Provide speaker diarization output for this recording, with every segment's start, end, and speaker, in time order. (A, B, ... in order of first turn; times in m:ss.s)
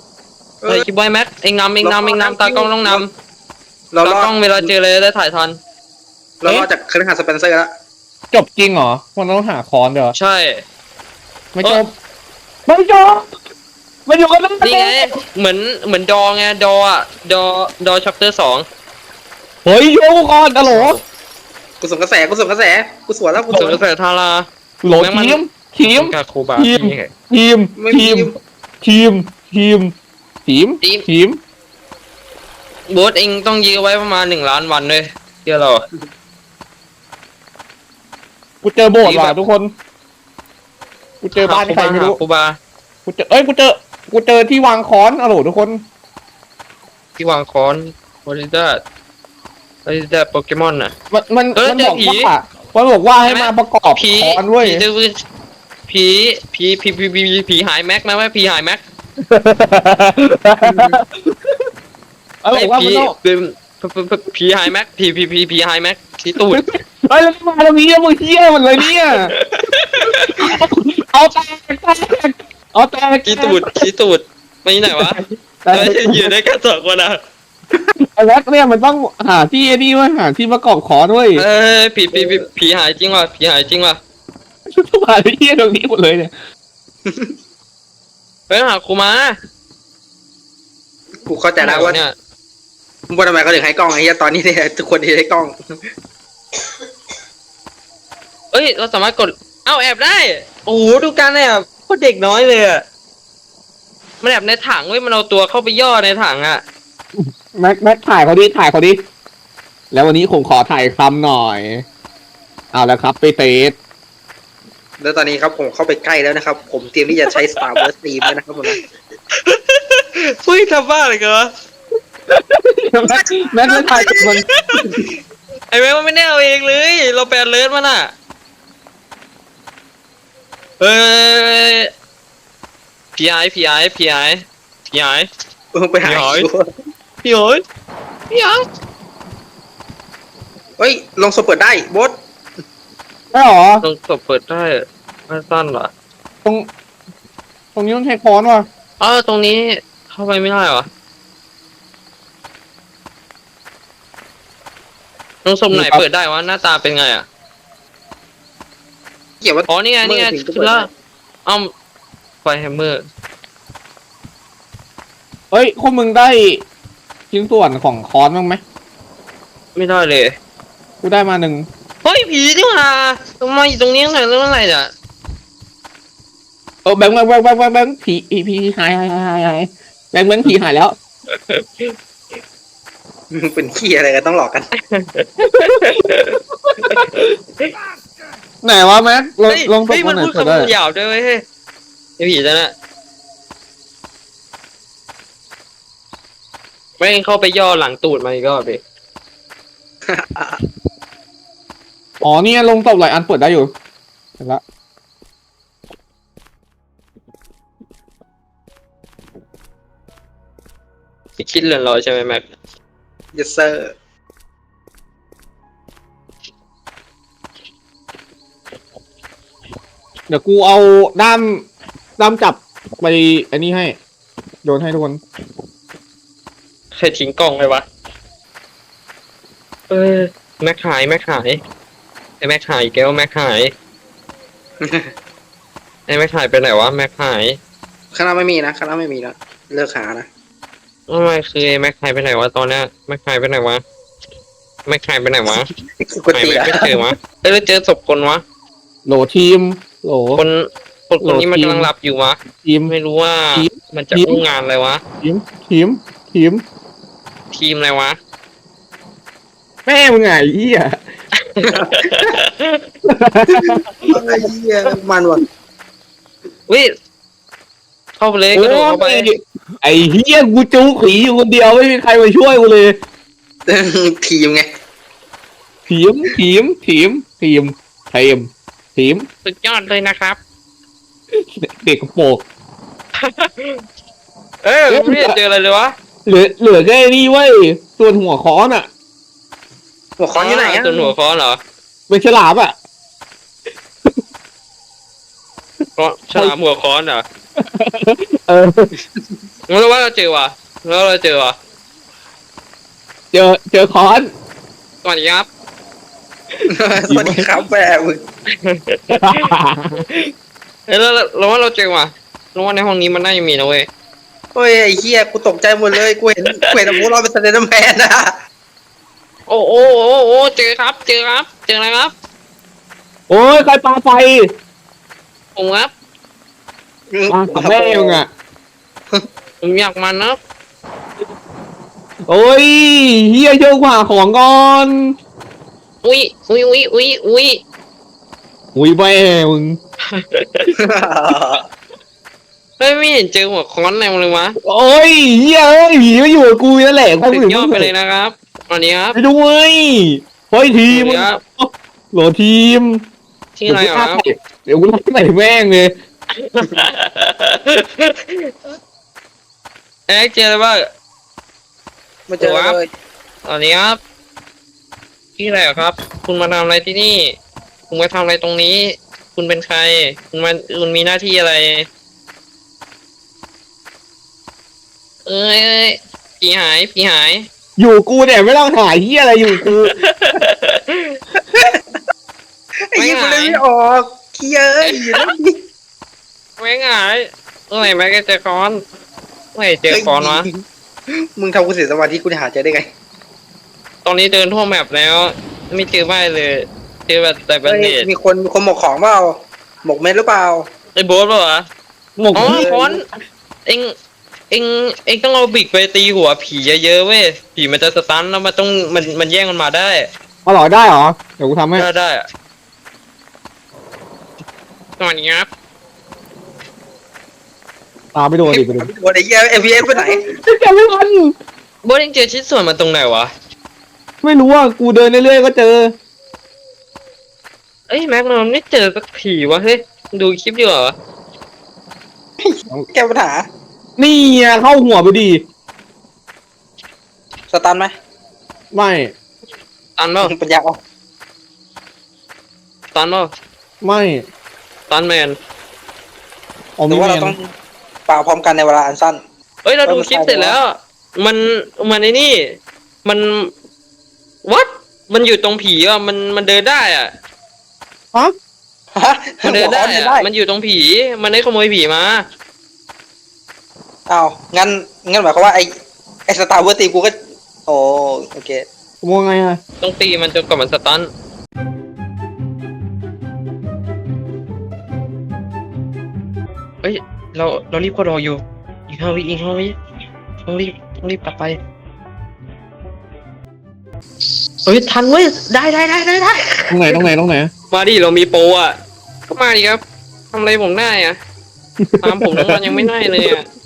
0:00.7-0:03.1 A
0:01.8-0:03.1 B
0:03.9-0:04.7 B
0:04.0-0:05.6 A
0:06.4-0:07.7 B
0:08.3-0:10.2 C
0:10.1-0:10.6 A
0:11.6-0:11.9 C
0:12.7-0:13.3 C
0:14.1-0:15.1 C
0:14.6-0:18.6 A
0:19.6-0:21.0 C
0:20.6-0:21.0 A
0:21.8-0:23.8 B
0:23.4-0:23.6 C
0:23.5-0:27.1 A
0:24.8-0:28.3 C
0:27.8-0:28.4 B
0:28.8-0:29.9 C
0:30.4-0:31.4 C
0:32.9-0:35.8 A
0:38.6-0:39.7 C
0:39.0-0:39.4 A
0:41.2-0:42.2 C
0:41.4-0:42.6 A
0:43.1-0:45.8 C
0:47.2-0:48.8 A
0:49.8-0:50.9 A
0:51.1-0:54.8 C
0:51.6-0:52.3 A
0:53.3-0:55.2 A
0:55.9-0:58.8 A
0:59.2-1:01.0 C
1:02.4-1:03.2 C
1:02.5-1:06.6 A
1:06.5-1:09.3 C
1:08.8-1:10.6 A
1:10.4-1:13.9 C
1:13.2-1:17.2 A
1:14.9-1:16.3 C
1:17.8-1:21.4 C
1:21.4-1:24.0 A
1:24.7-1:26.3 C
1:27.1-1:27.3 B
1:28.5-1:29.3 A
1:31.3-1:32.0 B
1:31.6-1:32.1 A
1:33.1-1:35.5 B
1:38.5-1:42.8 A
1:44.2-1:46.6 A
1:47.2-1:49.0 C
1:49.9-1:51.8 C
1:52.7-1:53.8 C
1:55.0-1:58.8 B
1:57.3-1:57.7 A
1:59.4-2:01.5 A
2:02.3-2:04.4 C
2:03.7-2:04.9 A
2:04.8-2:05.0 B
2:05.7-2:08.1 A
2:10.8-2:11.9 A
2:13.2-2:15.3 A
2:15.7-2:16.6 B
2:16.0-2:16.5 A
2:17.2-2:17.6 A
2:18.3-2:18.6 A
2:20.8-2:22.2 B
2:23.3-2:23.8 C
2:23.8-2:25.9 A
2:27.8-2:28.7 C
2:29.0-2:30.9 A
2:35.4-2:37.3 A
2:35.7-2:36.0 C
2:39.4-2:40.9 B
2:39.7-2:40.9 A
2:42.4-2:43.0 A
2:45.5-2:46.7 C
2:47.3-2:48.6 C
2:49.8-2:50.3 A
2:51.0-2:51.7 C
2:52.0-2:54.9 A
2:56.8-3:01.0 C
3:01.3-3:02.0 A
3:03.3-3:04.7 B
3:04.9-3:07.7 A
3:05.4-3:05.9 C
3:06.6-3:07.1 C
3:08.6-3:10.7 C
3:09.5-3:11.4 A
3:12.2-3:12.7 A
3:17.0-3:18.8 A
3:20.1-3:20.6 B
3:22.2-3:23.7 C
3:31.4-3:32.5 A
3:33.3-3:33.9 B
3:40.3-3:41.7 C
3:42.2-3:44.0 C
3:44.6-3:45.2 C
3:46.9-3:47.8 A
3:49.9-3:51.6 A
3:52.4-3:53.7 A
3:56.1-3:57.6 A
3:58.1-4:00.3 B
4:01.1-4:03.8 A
4:04.9-4:05.7 A
4:06.0-4:07.0 B
4:06.3-4:08.4 A
4:09.0-4:10.4 C
4:10.4-4:15.0 A
4:11.2-4:11.9 C
4:12.6-4:12.9 C
4:13.5-4:14.4 C
4:15.2-4:16.6 C
4:17.5-4:18.2 A
4:19.9-4:21.0 C
4:21.5-4:22.8 A
4:21.7-4:22.3 B
4:23.1-4:24.4 C
4:24.1-4:25.4 B
4:28.2-4:29.3 A
4:28.5-4:33.0 C
4:33.7-4:34.7 B
4:35.9-4:39.3 C
4:39.4-4:40.4 A
4:41.3-4:42.4 C
4:43.2-4:43.8 A
4:44.6-4:45.9 A
4:44.9-4:45.4 C
4:46.3-4:48.9 C
4:50.2-4:51.1 B
4:50.4-4:51.6 A
4:52.1-4:52.8 C
4:56.0-4:57.2 A
4:57.6-4:58.9 C
4:59.7-5:01.6 A
5:03.3-5:04.3 C
5:05.0-5:05.5 A
5:06.7-5:08.2 B
5:07.1-5:07.5 C
5:08.6-5:09.5 A
5:09.1-5:10.0 C
5:10.9-5:13.9 A
5:14.6-5:18.3 B
5:19.5-5:22.1 A
5:23.3-5:24.4 C
5:25.6-5:25.9 A
5:27.1-5:28.2 B
5:27.3-5:28.3 C
5:29.6-5:30.4 A
5:32.3-5:35.1 C
5:36.0-5:37.6 A
5:38.7-5:39.8 C
5:40.1-5:40.7 A
5:40.8-5:41.6 B
5:42.8-5:44.6 A
5:44.6-5:47.9 C
5:47.3-5:49.2 A
5:49.1-5:53.0 C
5:50.9-5:51.4 A
5:53.6-5:54.2 A
5:53.7-5:55.9 C
5:56.4-5:58.5 A
6:00.1-6:00.8 A
6:02.3-6:02.9 B
6:02.4-6:02.8 A
6:03.4-6:04.0 A
6:05.4-6:07.3 A
6:07.9-6:11.9 A
6:15.3-6:17.5 A
6:17.8-6:20.0 C
6:19.5-6:21.2 A
6:22.9-6:25.6 B
6:23.0-6:23.6 A
6:24.9-6:25.2 A
6:26.6-6:28.8 A
6:29.6-6:30.5 A
6:29.9-6:30.6 B
6:31.4-6:32.9 B
6:34.0-6:38.1 A
6:37.6-6:39.3 B
6:39.8-6:40.6 B
6:41.0-6:41.6 A
6:42.2-6:42.7 C
6:42.3-6:43.0 A
6:42.4-6:42.9 B
6:43.7-6:43.9 A
6:44.5-6:50.1 A
6:50.5-6:51.9 C
6:51.8-6:52.2 A
6:55.0-6:55.5 A
6:58.1-6:58.9 C
6:58.5-7:00.2 B
6:59.9-7:01.3 C
7:01.8-7:03.3 A
7:04.2-7:05.9 C
7:07.9-7:11.0 A
7:12.4-7:13.5 B
7:14.0-7:15.4 C
7:17.5-7:17.9 B
7:18.7-7:19.1 C
7:20.0-7:20.3 A
7:20.2-7:20.8 B
7:22.9-7:23.3 A
7:23.8-7:24.3 C
7:24.9-7:25.4 A
7:26.8-7:27.4 C
7:26.9-7:27.5 B
7:28.1-7:29.2 B
7:29.6-7:33.5 A
7:29.8-7:30.6 B
7:34.4-7:37.1 A
7:39.0-7:40.3 B
7:39.4-7:42.2 A
7:44.1-7:45.7 B
7:46.3-7:47.1 B
7:47.7-7:48.6 B
7:49.0-7:49.6 C
7:49.8-7:51.1 A
7:56.8-7:59.7 A
8:00.4-8:01.6 A
8:04.6-8:07.0 A
8:06.7-8:07.5 C
8:07.7-8:08.8 A
8:09.3-8:09.8 A
8:10.3-8:11.2 A
8:11.8-8:13.3 C
8:12.0-8:13.5 A